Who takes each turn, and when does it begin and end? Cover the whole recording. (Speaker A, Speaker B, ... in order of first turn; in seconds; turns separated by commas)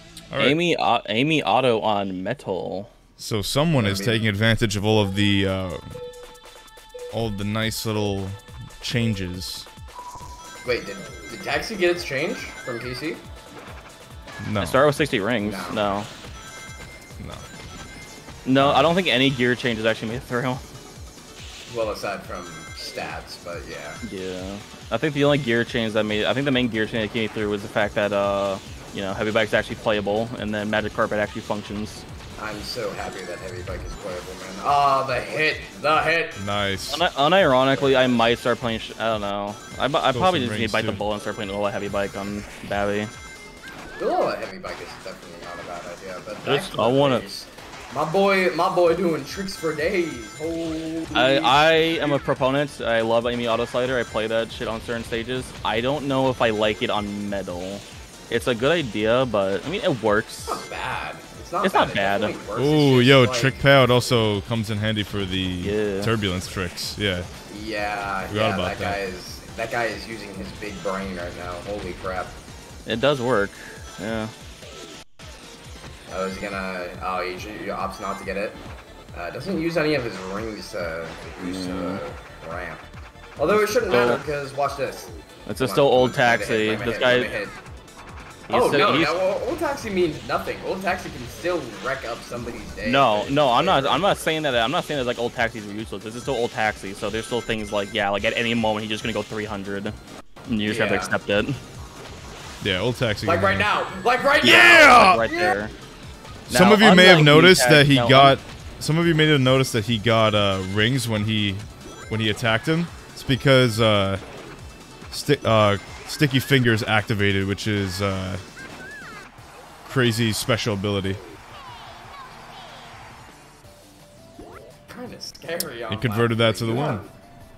Speaker A: 0.3-0.6, Speaker B: 0.4-2.9, Speaker A: 3.2-5.8, Speaker C: 3.7-4.3, Speaker A: 7.1-9.7, Speaker C: 10.6-13.2, Speaker A: 14.4-14.8, Speaker B: 14.6-16.1, Speaker C: 15.4-15.9, Speaker A: 17.2-17.4, Speaker B: 18.5-20.6, Speaker A: 18.6-18.9, Speaker C: 21.7-24.0, Speaker B: 24.0-32.0, Speaker C: 32.4-36.4, Speaker A: 36.4-37.0, Speaker B: 36.9-43.1, Speaker C: 37.7-38.3, Speaker A: 40.1-41.0, Speaker C: 44.0-52.2, Speaker B: 46.4-47.2, Speaker B: 51.1-60.7, Speaker C: 60.5-63.6, Speaker B: 61.6-62.3, Speaker A: 62.5-67.3, Speaker B: 65.6-66.1, Speaker C: 67.5-72.4, Speaker A: 68.3-69.0, Speaker B: 72.9-74.3, Speaker C: 76.1-78.6, Speaker C: 79.1-82.8, Speaker B: 81.4-82.0, Speaker C: 83.4-87.6, Speaker B: 83.9-84.2, Speaker B: 85.5-87.3, Speaker B: 88.5-89.2, Speaker C: 88.5-94.2, Speaker B: 92.8-100.0, Speaker B: 100.5-101.6, Speaker C: 100.7-101.2, Speaker A: 102.6-103.7, Speaker C: 103.2-105.6, Speaker A: 104.4-105.2, Speaker B: 104.4-105.7, Speaker B: 106.5-108.4, Speaker A: 106.5-114.2, Speaker A: 115.1-118.4, Speaker A: 119.8-121.2, Speaker C: 124.9-127.1, Speaker A: 125.9-127.1